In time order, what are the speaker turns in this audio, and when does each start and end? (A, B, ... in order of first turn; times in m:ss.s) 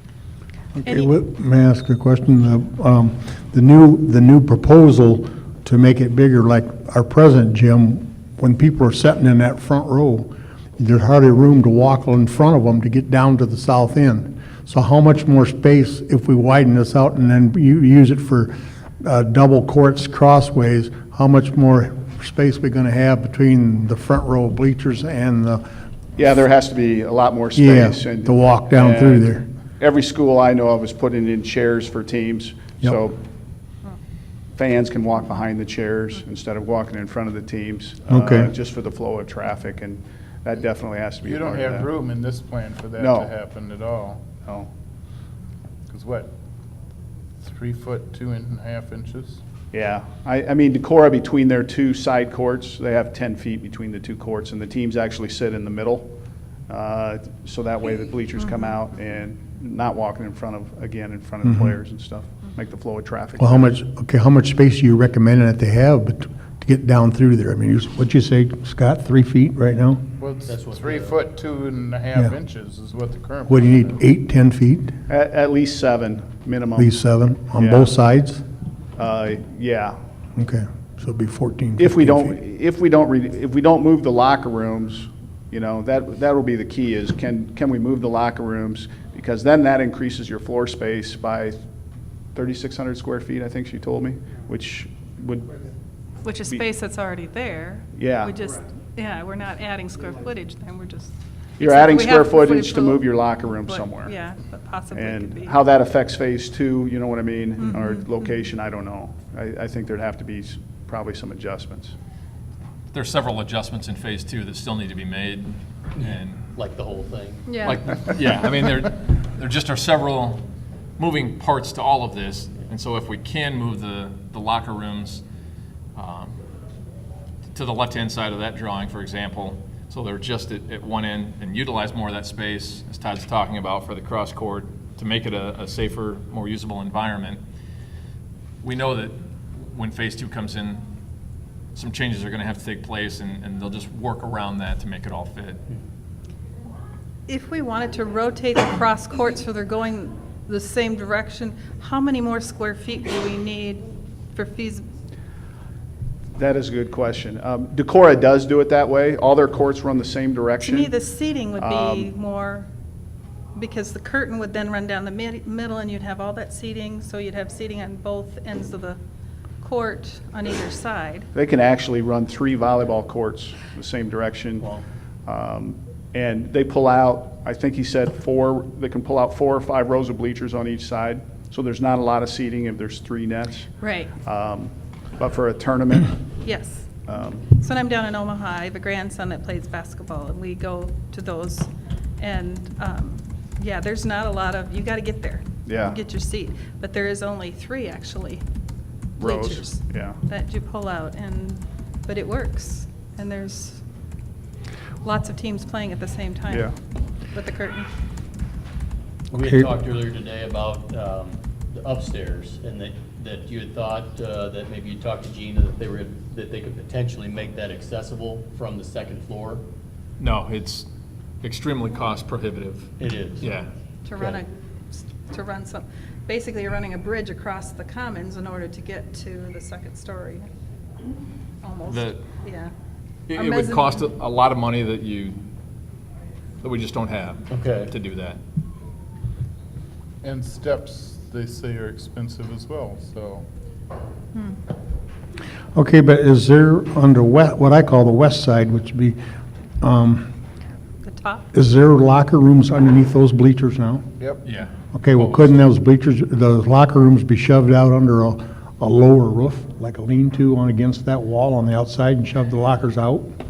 0:00.7-0:25.6 A
0:00.8-0:01.1 B
0:26.2-0:33.2 C
0:27.6-0:29.4 A
0:34.6-0:41.9 C
0:38.1-0:38.5 A
0:41.2-0:44.3 D
0:43.0-0:43.3 C
0:45.9-0:46.3 D
0:47.4-0:49.4 D
0:49.7-0:56.1 C
0:56.7-1:03.7 C
1:01.4-1:01.7 A
1:03.4-1:10.0 A
1:10.2-1:14.0 D
1:10.4-1:11.2 E
1:13.5-1:14.9 A
1:15.1-1:16.9 C
1:16.8-1:18.4 A
1:17.6-1:17.9 C
1:19.0-1:20.0 C
1:20.4-1:22.3 A
1:21.8-1:31.6 C
1:32.3-1:35.5 C
1:36.2-1:45.6 B
1:37.9-1:38.4 C
1:41.6-1:44.1 C
1:44.9-1:51.9 C
1:47.6-1:48.0 B
1:52.9-1:56.4 F
1:56.0-1:57.5 E
1:57.5-1:57.8 B
1:57.6-2:00.4 F
2:01.0-2:05.2 F
2:05.9-2:06.4 F
2:07.5-2:17.4 F
2:18.6-2:20.8 F
2:21.7-2:25.6 F
2:27.3-2:34.8 B
2:36.4-2:40.9 C
2:40.6-2:42.6 B
2:41.6-2:42.1 C
2:43.6-2:49.0 B
2:49.6-2:51.3 B
2:51.3-2:54.6 C
2:55.2-3:06.2 C
3:03.8-3:04.2 B
3:06.4-3:06.9 B
3:07.0-3:07.5 C
3:07.5-3:18.4 B
3:15.6-3:16.0 C
3:19.2-3:20.2 C
3:19.2-3:23.8 B
3:25.0-3:26.7 B
3:27.3-3:27.9 B
3:29.3-3:39.6 E
3:40.2-3:40.8 F
3:41.4-3:43.7 F
3:43.0-3:43.5 E
3:44.0-3:50.4 B
3:44.1-3:44.4 E
3:51.6-3:52.7 B
3:51.9-3:52.2 F
3:53.3-3:55.4 F
3:53.3-3:54.1 B
3:56.6-3:58.4 F
3:57.5-3:57.9 E
4:00.2-4:03.4 D
4:05.7-4:09.2 A
4:09.8-4:10.3 A
4:11.0-4:11.5 B
4:11.5-4:14.1 A
4:14.4-4:15.6 F
4:14.9-4:23.3 A